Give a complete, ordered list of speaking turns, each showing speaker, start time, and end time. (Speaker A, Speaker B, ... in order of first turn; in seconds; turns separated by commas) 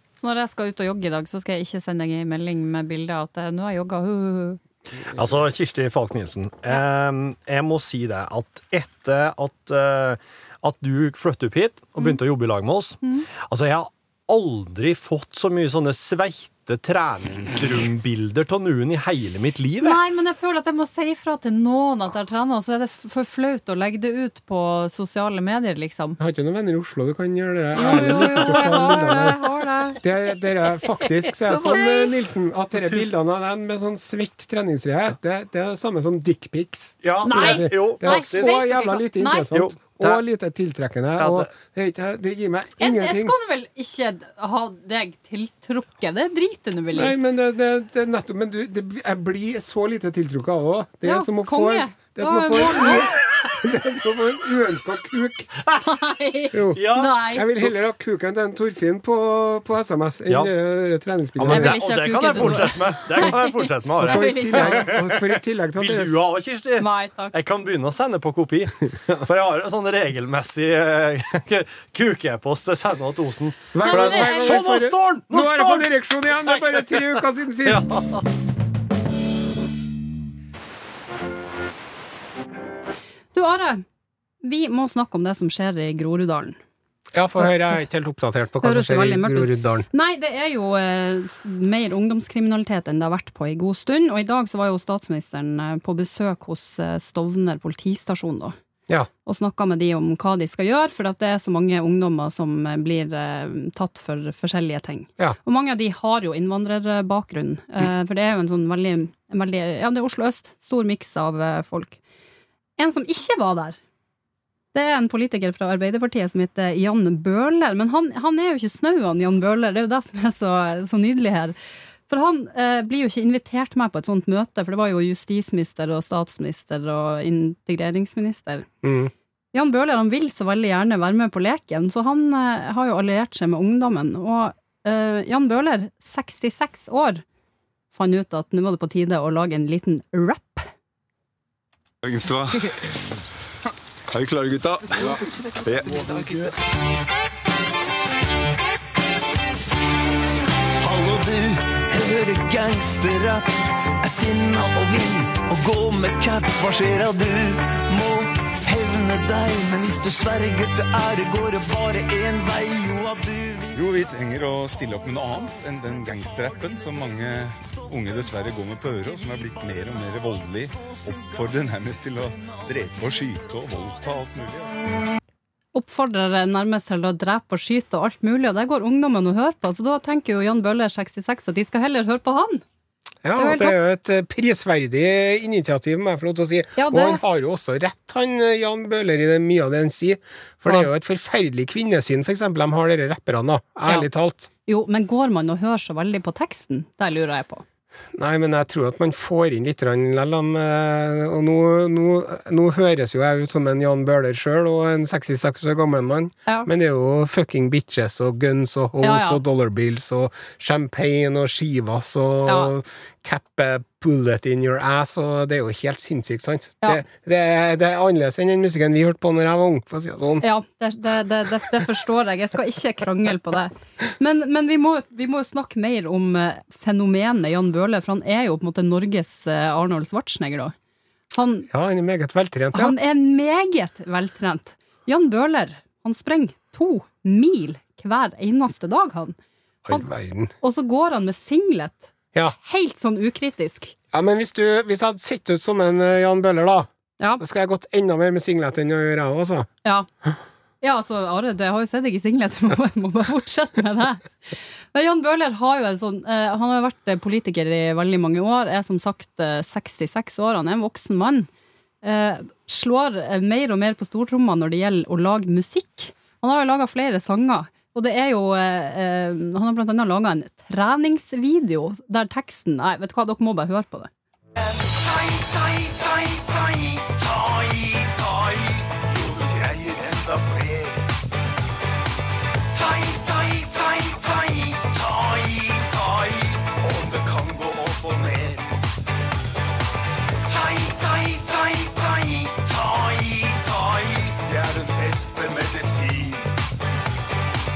Speaker A: 0.2-4.6, Speaker B: 5.2-20.0, Speaker A: 19.8-26.2, Speaker C: 26.2-29.4, Speaker A: 27.8-30.0, Speaker B: 27.8-29.3, Speaker C: 30.0-43.3, Speaker B: 31.4-32.1, Speaker B: 32.7-33.0, Speaker B: 37.0-38.6, Speaker A: 37.2-39.5, Speaker B: 39.5-40.2, Speaker B: 41.2-41.5, Speaker A: 42.8-47.1, Speaker C: 46.9-55.5, Speaker A: 51.0-53.1, Speaker A: 55.8-57.5, Speaker C: 56.5-61.8, Speaker B: 56.7-57.7, Speaker B: 61.4-78.2, Speaker A: 61.5-65.0, Speaker C: 64.0-66.3, Speaker A: 66.8-67.3, Speaker C: 73.7-77.9, Speaker A: 73.8-74.6, Speaker A: 83.3-83.8, Speaker A: 84.4-86.6, Speaker C: 87.1-89.9, Speaker A: 88.6-98.5, Speaker A: 99.3-112.0, Speaker A: 112.8-113.8, Speaker A: 114.7-121.6, Speaker A: 122.1-128.8, Speaker C: 128.8-129.1, Speaker A: 129.5-137.2, Speaker A: 137.9-140.7, Speaker D: 142.0-142.9, Speaker D: 144.1-146.5, Speaker E: 150.8-153.5, Speaker E: 154.0-163.7, Speaker D: 163.7-174.9, Speaker A: 175.7-182.6, Speaker C: 183.2-194.5, Speaker A: 183.4-183.8, Speaker A: 186.8-187.2, Speaker A: 194.7-197.6, Speaker C: 198.1-220.4, Speaker A: 209.0-209.4, Speaker A: 212.5-212.7, Speaker A: 220.4-230.7, Speaker A: 231.3-231.7, Speaker C: 231.7-233.0, Speaker A: 232.7-239.4, Speaker C: 239.9-240.5, Speaker A: 240.6-243.9, Speaker C: 244.1-246.9, Speaker C: 247.4-249.7, Speaker A: 250.8-261.5, Speaker A: 262.0-274.1, Speaker E: 275.9-278.4, Speaker E: 279.4-280.8, Speaker E: 283.0-286.3, Speaker E: 286.8-288.6, Speaker E: 290.9-296.2